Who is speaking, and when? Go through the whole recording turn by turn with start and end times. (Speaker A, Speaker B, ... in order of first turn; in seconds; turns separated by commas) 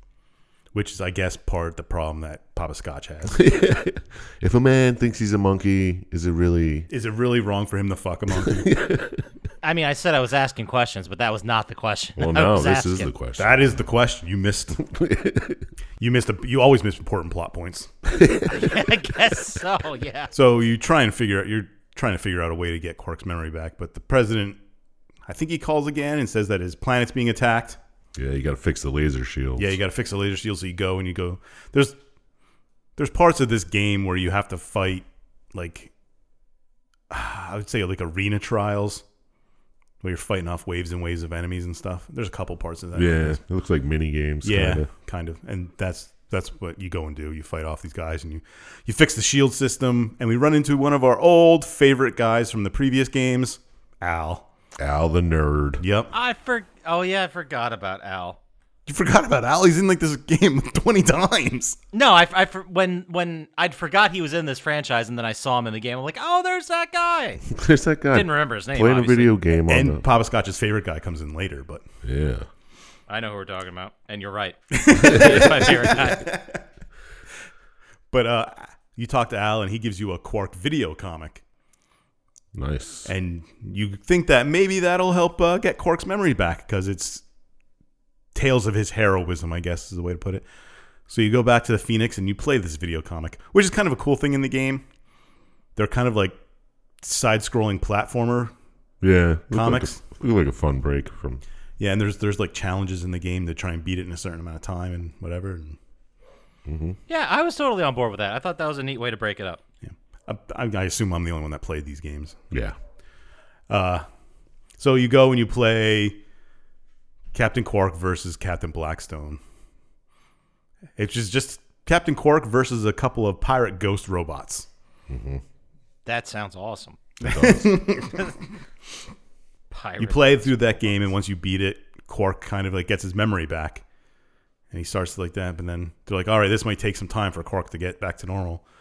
Speaker A: 0.7-3.4, Speaker B: 3.3-6.9, Speaker A: 6.9-8.7, Speaker B: 8.4-9.2, Speaker C: 9.6-13.1, Speaker B: 12.2-13.6, Speaker A: 13.4-14.8, Speaker B: 14.8-15.7, Speaker A: 16.0-17.9, Speaker B: 18.1-18.9, Speaker C: 18.5-20.3, Speaker A: 20.3-24.6, Speaker A: 25.3-27.8, Speaker B: 28.2-29.8, Speaker A: 29.6-32.0, Speaker A: 33.0-35.9, Speaker A: 37.1-39.0, Speaker A: 40.0-43.4, Speaker B: 43.0-44.9, Speaker A: 44.4-54.5, Speaker B: 54.8-55.8, Speaker A: 55.8-56.1, Speaker C: 56.1-58.4, Speaker A: 58.9-61.8, Speaker C: 61.9-67.5, Speaker B: 67.5-70.0, Speaker C: 68.1-69.4, Speaker A: 69.7-71.8, Speaker B: 72.0-72.5, Speaker C: 73.1-76.3, Speaker A: 74.7-76.6, Speaker B: 75.0-75.5, Speaker A: 78.1-81.4, Speaker B: 82.5-83.1, Speaker A: 83.1-87.2, Speaker A: 88.3-90.5, Speaker A: 91.1-94.8, Speaker A: 95.8-96.4, Speaker A: 97.0-98.5, Speaker B: 99.0-101.4, Speaker A: 99.5-100.0, Speaker A: 101.8-105.8, Speaker B: 106.7-107.0, Speaker C: 107.1-109.6, Speaker A: 109.9-112.4, Speaker A: 113.7-114.1, Speaker A: 114.8-116.2, Speaker A: 117.3-119.4, Speaker A: 121.0-124.7, Speaker B: 125.1-125.4, Speaker C: 126.1-127.0, Speaker B: 127.2-127.8, Speaker A: 127.2-128.3, Speaker C: 129.7-131.1, Speaker A: 130.0-133.8, Speaker A: 134.7-138.6